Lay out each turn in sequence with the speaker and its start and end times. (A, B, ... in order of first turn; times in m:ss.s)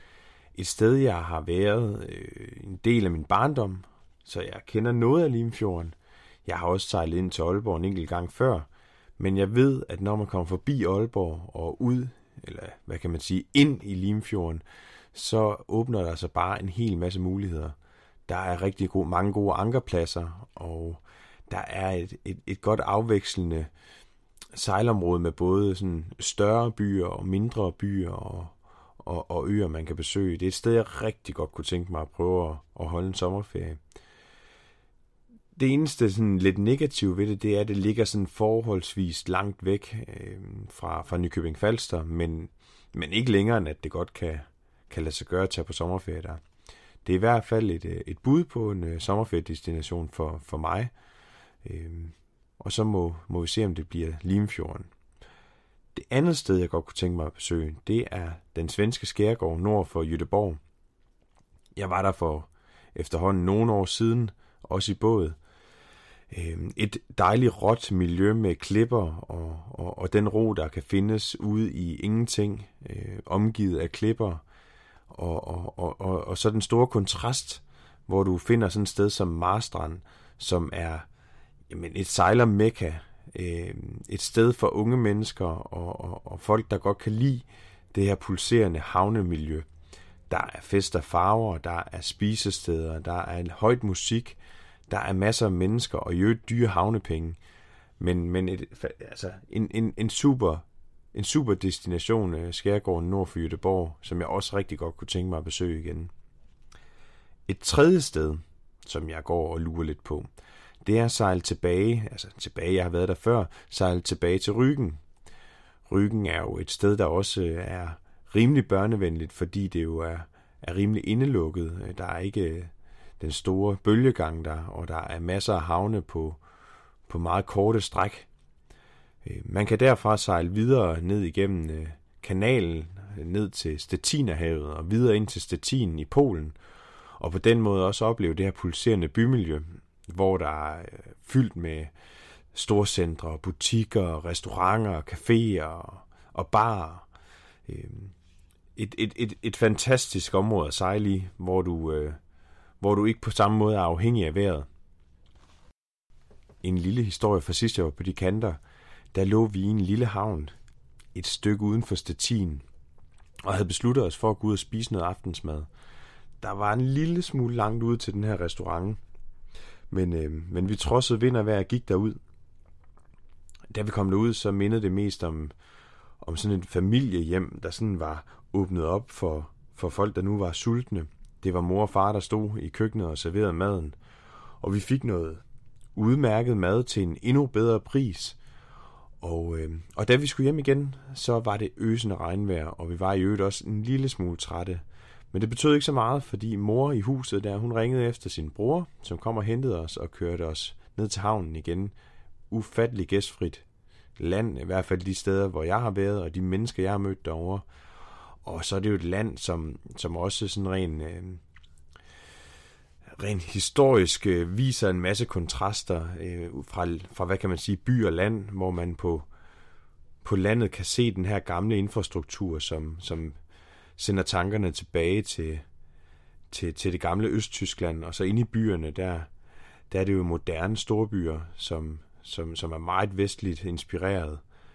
0:00.5-0:17.8 A
0:18.3-0:23.7 A
0:24.5-0:33.8 A
0:35.5-0:46.4 A
0:47.0-0:50.9 A
0:51.6-0:54.9 A
0:55.9-1:00.6 A
1:01.8-1:05.4 A
1:06.3-1:14.4 A
1:15.1-1:21.1 A
1:21.7-1:29.7 A
1:30.3-1:37.4 A
1:38.0-1:46.1 A
1:47.5-1:50.3 A
1:50.8-1:55.0 A
1:55.9-2:06.4 A
2:07.1-2:08.3 A
2:09.2-2:16.6 A
2:17.2-2:21.9 A
2:22.5-2:27.1 A
2:27.7-2:28.1 A
2:28.8-2:32.2 A
2:32.8-2:34.7 A
2:36.6-2:38.6 A
2:39.1-2:40.5 A
2:41.1-2:42.6 A
2:43.4-2:45.7 A
2:46.4-2:49.0 A
2:49.9-2:52.2 A
2:53.7-2:55.5 A
2:56.2-3:04.0 A
3:04.6-3:05.4 A
3:05.9-3:08.4 A
3:09.2-3:21.9 A
3:22.5-3:23.6 A
3:24.2-3:27.6 A
3:28.4-3:31.4 A
3:33.2-3:39.3 A
3:40.2-3:43.4 A
3:44.0-3:45.6 A
3:46.5-3:49.3 A
3:49.9-3:54.4 A